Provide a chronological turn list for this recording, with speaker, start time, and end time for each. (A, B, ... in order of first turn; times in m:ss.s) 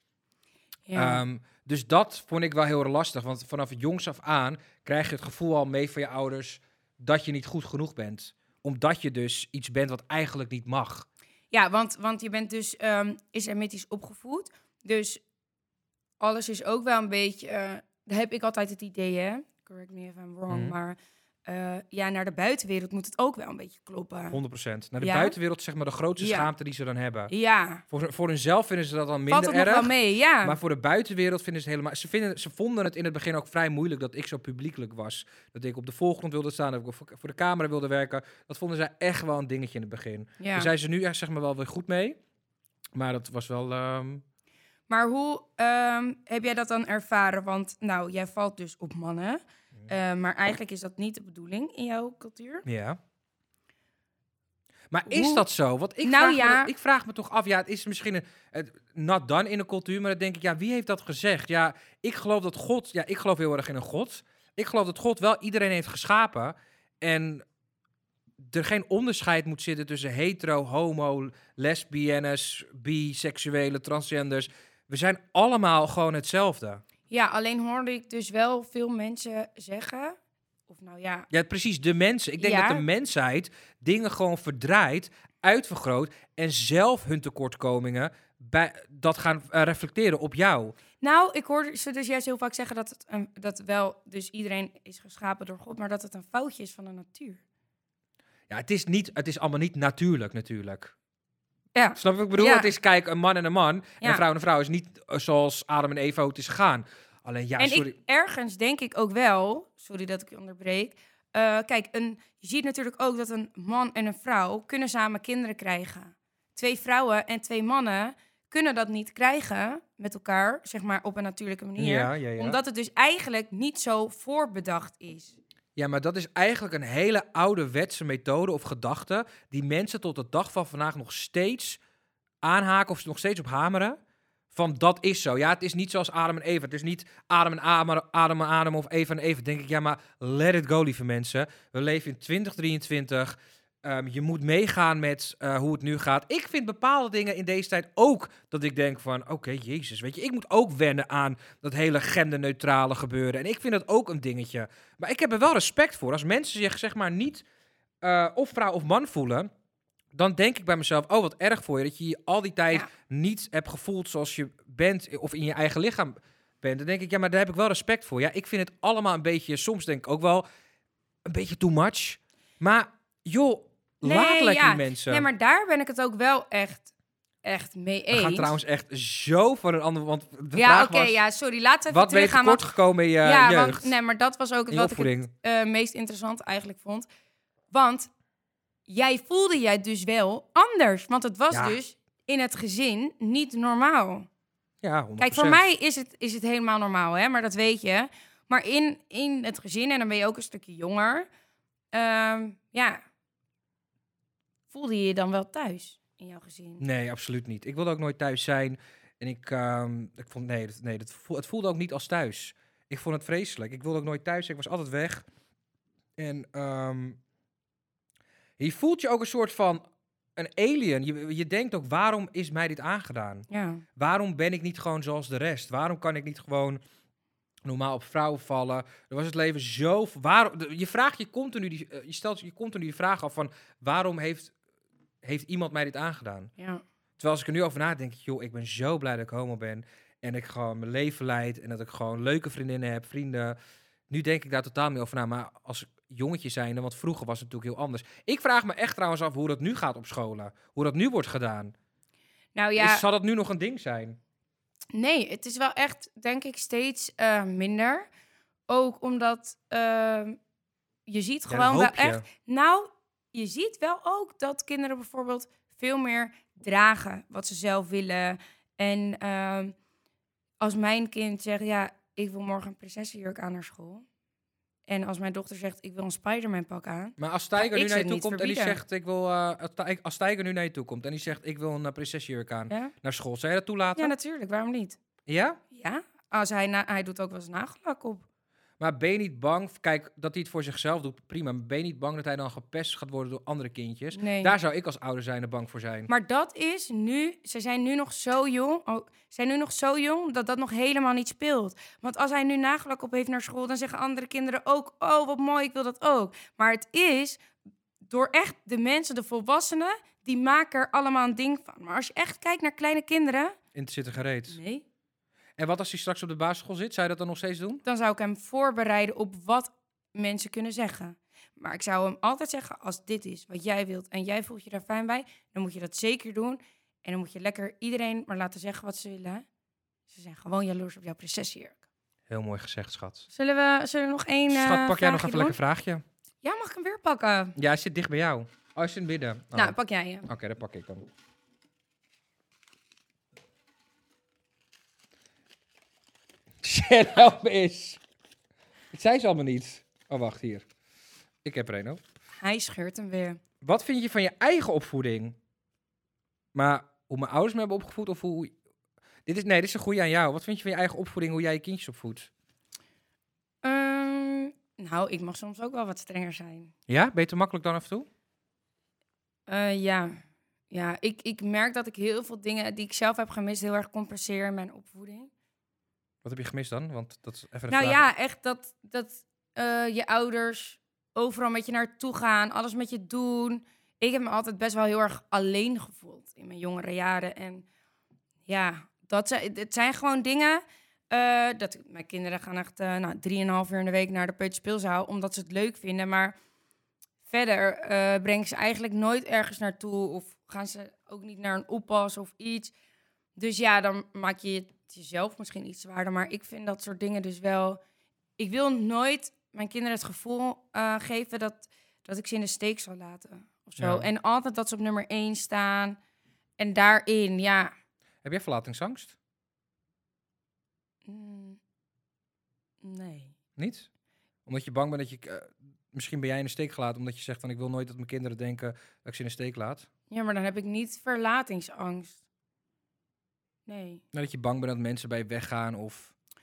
0:00.9-0:01.2 A
0:00.9-0:11.1 B
0:11.5-0:15.2 A
0:16.2-0:24.4 A
0:20.5-0:20.8 B
0:24.3-0:27.3 B
0:25.0-0:25.3 A
0:26.2-0:26.5 A
0:27.3-0:27.8 A
0:27.9-0:42.2 B
0:29.3-0:30.6 A
0:40.4-0:40.7 A
0:42.9-0:44.2 B
0:44.9-0:52.6 A
0:52.6-0:53.0 B
0:54.9-1:07.4 B
0:55.1-0:55.4 A
0:56.0-0:56.7 A
1:08.4-1:16.8 B
1:17.1-1:20.2 A
1:20.7-1:21.3 A
1:21.3-1:30.7 B
1:22.4-1:22.8 A
1:31.0-1:37.4 A
1:38.5-1:40.9 B
1:41.7-1:42.7 A
1:42.0-1:47.9 B
1:47.6-2:05.4 A
2:01.8-2:02.6 B
2:05.8-2:11.8 B
2:12.4-2:14.0 B
2:14.5-2:37.4 B
2:38.0-2:39.5 B
2:40.1-2:50.4 B
2:51.2-2:55.3 B
2:54.0-2:56.9 A
2:57.4-2:58.5 A
2:58.1-3:01.2 B
3:00.5-3:07.1 A
3:01.9-3:03.9 B
3:04.7-3:05.3 B
3:07.7-3:08.1 A
3:08.9-3:14.3 A
3:11.5-3:11.8 B
3:14.8-3:15.7 B
3:15.2-3:21.3 A
3:21.9-3:23.0 A
3:24.7-3:26.8 A
3:26.8-3:35.2 B
3:36.2-3:37.2 B
3:38.6-3:46.8 B
3:43.5-3:43.8 A
3:47.6-3:54.5 B
3:55.2-3:56.5 B
3:56.6-3:56.8 A
3:57.2-4:03.6 B
4:04.1-4:11.7 B
4:12.5-4:13.0 A
4:12.8-4:14.2 B
4:14.9-4:18.1 A
4:18.7-4:20.4 A
4:21.0-4:29.7 A
4:21.5-4:22.2 B
4:30.6-4:34.0 A
4:34.9-4:38.8 A
4:37.2-4:44.1 B
4:44.0-4:45.0 A
4:45.3-4:45.6 B
4:45.7-4:48.2 A
4:48.8-4:56.1 B
4:54.1-4:54.5 A
4:56.1-5:07.4 A
5:08.0-5:13.6 A
5:13.7-5:14.6 B
5:14.5-5:14.8 A
5:15.6-5:17.8 B
5:17.8-5:29.4 A
5:30.1-5:31.8 A
5:32.3-5:33.3 B
5:33.3-5:35.6 A
5:34.5-5:36.0 B
5:36.4-5:37.6 A
5:37.6-5:39.7 B
5:39.5-5:40.3 A
5:40.3-5:41.1 B
5:46.6-5:48.0 B
5:48.9-5:50.6 B
5:51.4-5:52.0 B
5:52.4-5:53.4 A
5:53.6-5:55.4 B
5:56.5-5:58.5 B
5:59.2-6:02.3 B
6:03.6-6:06.7 A
6:06.9-6:08.1 B
6:09.5-6:15.3 A
6:16.2-6:18.1 B
6:17.7-6:27.6 A
6:28.4-6:36.3 A
6:37.3-6:42.7 A
6:43.4-6:47.8 A
6:48.4-6:56.0 A
6:53.8-6:54.1 B
6:56.6-6:57.7 A
6:58.2-6:59.2 B
7:01.0-7:01.6 A
7:02.8-7:03.3 A
7:03.6-7:03.9 B
7:04.4-7:09.9 B
7:10.1-7:12.2 A
7:13.6-7:14.0 A
7:14.1-7:16.1 B